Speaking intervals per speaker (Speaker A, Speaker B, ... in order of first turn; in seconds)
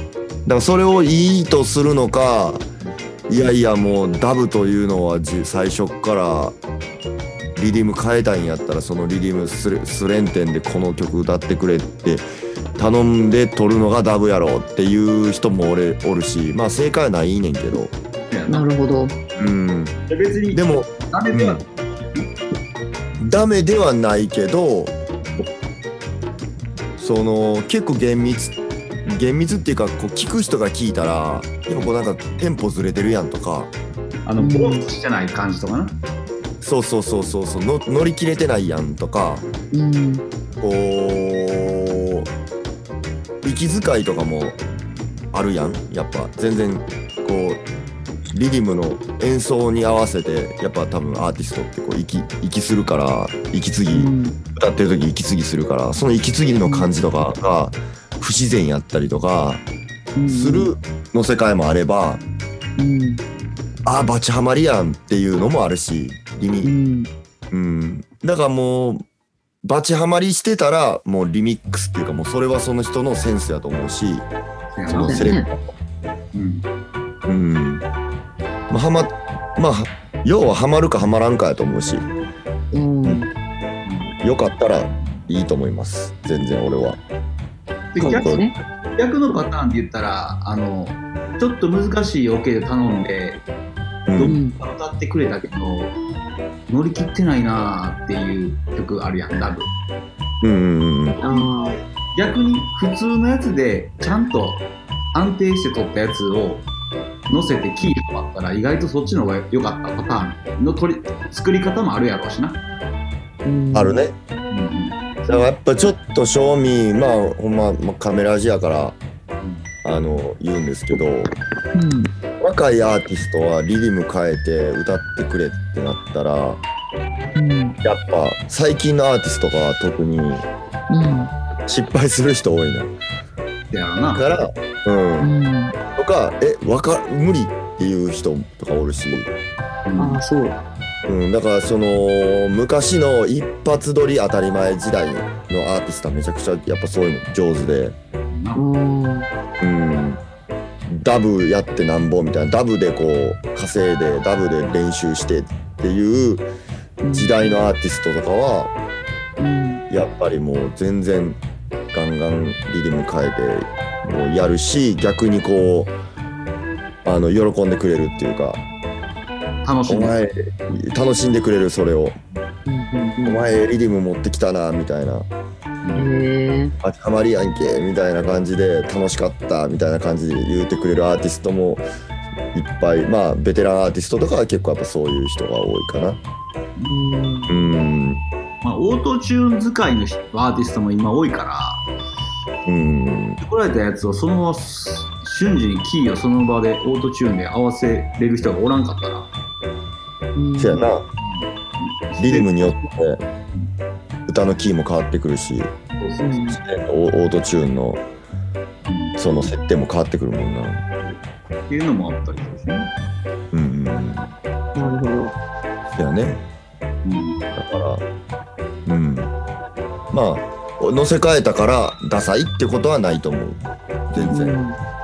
Speaker A: 0.5-2.7, 3.3-6.6, 7.6-12.2, 12.8-17.9, 19.4-19.9, 20.5-21.6, 23.2-24.9, 27.0-33.7, 36.6-39.5, 40.6-42.3, 43.4-44.6, 45.3-47.6, 48.3-59.6, 60.3-62.2, 63.9-66.7, 67.5-69.1, 69.6-74.3, 74.9-75.7, 77.3-77.8, 78.7-82.1, 84.2-87.0, 88.0-88.4, 94.1-94.4, 100.4-101.2, 113.7-114.2, 115.3-119.0, 119.8-121.3, 122.4-126.6, 127.8-130.5, 131.7-132.9, 134.1-135.3, 135.9-139.3, 141.1-148.0, 149.6-150.2, 150.9-156.5, 157.1-158.7, 159.9-161.4, 161.9-165.9, 167.0-168.6, 169.9-172.2, 173.2-175.3, 176.8-181.8, 182.5-186.2, 187.5-188.2, 192.7-193.4, 200.6-201.0, 202.2-203.2, 204.3-205.7, 206.5-208.0, 209.2-210.8, 213.5-214.3, 215.9-216.4, 217.5-218.0, 218.9-219.3, 220.1-224.6
Speaker B: 18.3-18.7, 20.1-22.3, 34.3-36.0, 74.8-75.3, 76.3-76.7, 83.9-84.1, 87.9-88.4, 89.0-93.4, 94.2-96.0, 96.7-99.7, 101.2-106.7, 107.3-112.6, 114.5-115.2, 119.4-119.7, 133.7-134.3, 139.9-140.2, 148.3-148.6, 169.6-170.2, 175.8-176.1, 188.6-191.8, 193.4-199.3, 201.2-202.9, 206.0-206.4, 208.9-209.2, 211.7-212.9, 217.1-217.4
Speaker C: 18.5-19.1, 34.4-34.8, 39.7-40.2, 53.9-54.4, 60.2-60.7, 62.8-63.2, 66.6-67.1, 74.9-75.5, 82.7-83.3, 88.0-88.5, 94.2-94.5, 101.2-101.8, 113.5-114.0, 121.7-122.1, 127.3-127.8, 130.9-131.3, 135.2-135.8, 140.0-140.6, 148.6-149.3, 157.0-157.6, 159.4-159.8, 172.7-173.5, 176.0-176.7, 186.9-187.5, 200.4-200.9, 206.2-206.6, 214.8-215.4, 224.3-224.8